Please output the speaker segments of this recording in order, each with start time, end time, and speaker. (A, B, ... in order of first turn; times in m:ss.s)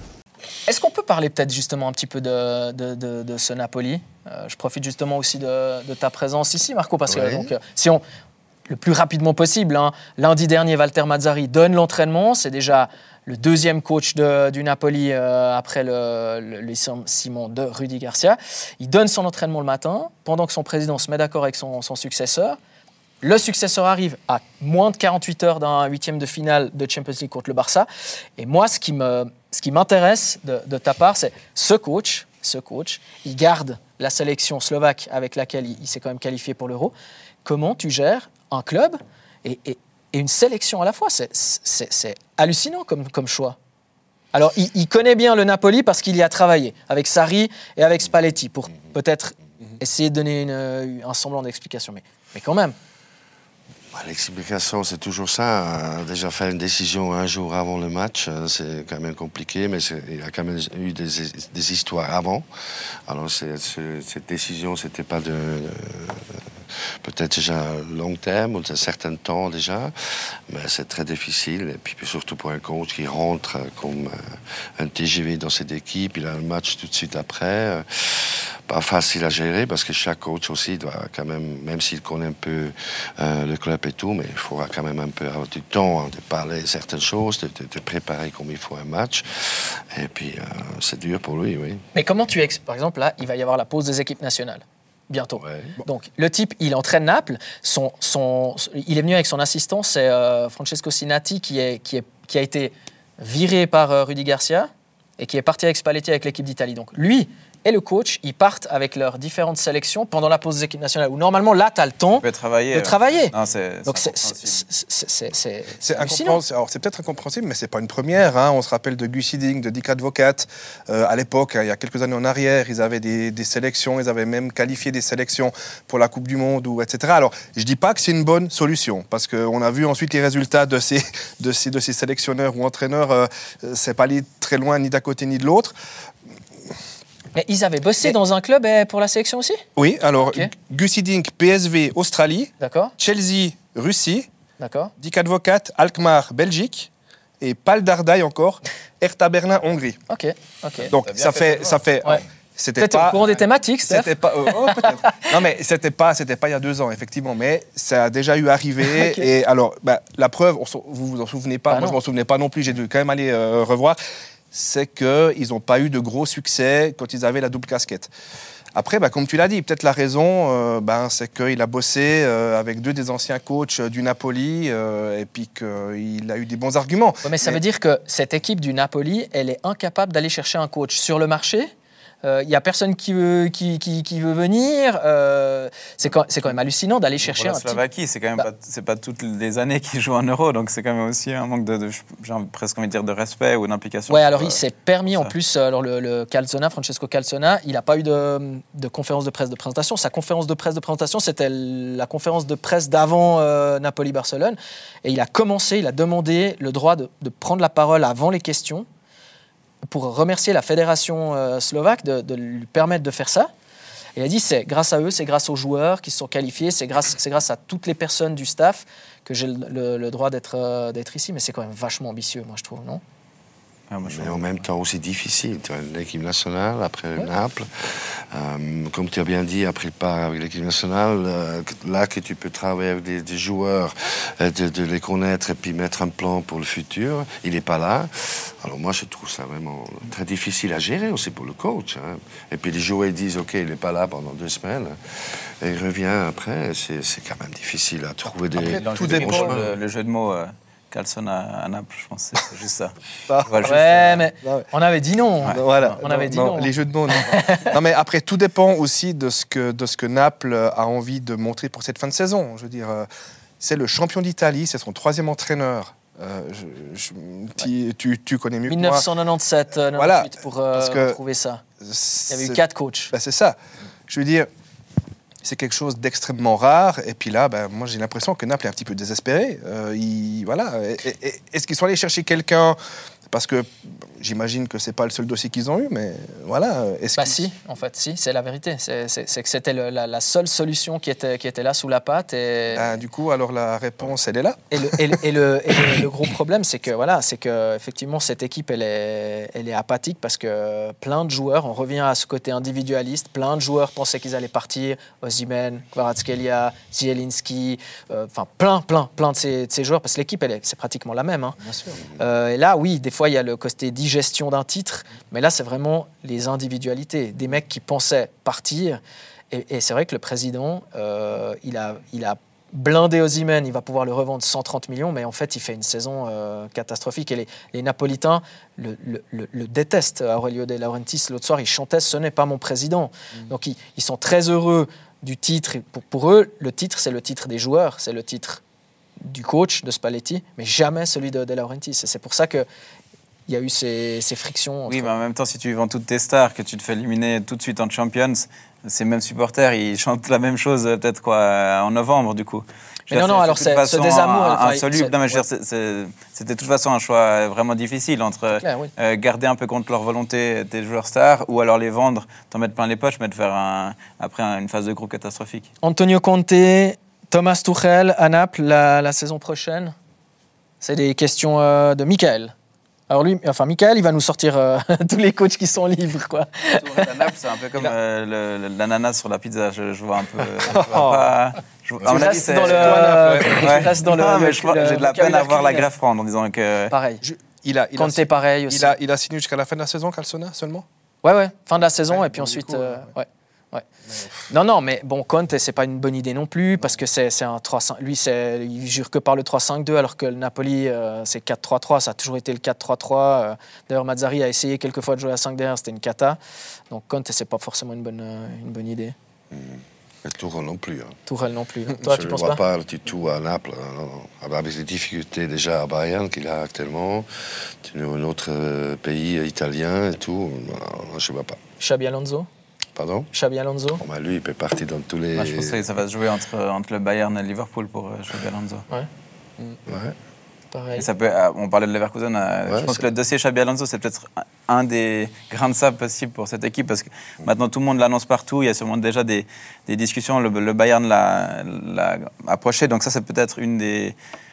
0:00.7-0:08.0 A
0:07.1-0:07.5 B
0:08.7-0:22.6 A
0:23.2-0:43.6 A
0:44.3-0:52.8 A
0:53.9-1:02.5 B
1:03.1-1:06.4 B
1:07.0-1:31.8 B
1:31.9-1:53.4 A
1:35.4-1:35.7 B
1:52.2-1:54.6 C
1:53.9-1:56.4 A
1:55.8-2:15.8 D
2:17.4-2:19.6 A
2:19.8-2:24.3 D
2:20.2-2:20.5 A
2:22.6-2:23.0 A
2:24.6-2:24.9 A
2:25.0-2:30.0 D
2:30.1-2:30.9 A
2:30.9-2:31.8 C
2:30.9-2:33.2 D
2:32.8-2:35.3 A
2:33.8-2:44.0 D
2:38.9-2:39.3 A
2:41.7-2:42.0 A
2:44.5-2:48.1 D
2:48.8-2:57.6 D
2:57.2-3:01.7 A
3:02.2-3:07.8 A
3:07.2-3:15.4 C
3:14.1-3:28.9 A
3:29.9-3:33.5 A
3:34.2-3:43.0 A
3:43.9-3:44.6 C
3:44.0-4:09.5 B
4:08.6-4:14.2 C
4:08.6-4:09.7 D
4:13.3-4:13.7 D
4:13.6-4:17.7 A
4:15.6-4:23.1 D
4:23.6-4:29.0 D
4:28.7-4:31.6 A
4:29.9-4:31.2 D
4:31.8-4:32.6 D
4:32.3-4:33.1 A
4:33.1-4:33.6 D
4:34.1-4:34.5 D
4:35.4-4:42.8 D
4:43.3-4:47.4 D
4:47.2-4:53.0 A
4:52.7-4:54.6 D
4:54.7-5:38.6 A
5:39.2-5:42.7 A
5:43.5-5:45.1 A
5:44.9-6:05.7 C
5:53.1-5:55.4 A
5:58.5-5:58.9 A
6:05.8-6:09.9 A
6:10.8-6:12.5 A
6:13.1-6:17.2 A
6:16.8-6:23.0 C
6:20.6-6:21.3 D
6:22.0-6:23.9 D
6:22.0-6:25.9 A
6:23.6-6:26.9 C
6:26.9-6:27.2 A
6:27.2-6:30.8 D
6:28.0-6:29.0 A
6:31.2-6:33.8 A
6:32.1-6:33.0 D
6:34.5-6:46.4 A
6:46.9-6:49.1 A
6:49.5-6:51.2 B
6:51.3-6:52.6 A
6:52.0-7:01.6 B
7:01.8-7:02.5 A
7:03.0-7:03.3 B
7:03.3-7:04.0 A
7:04.0-7:05.9 B
7:05.4-7:08.8 C
7:09.9-7:10.2 B
7:10.7-7:11.1 A
7:11.0-7:24.2 C
7:12.7-7:13.1 B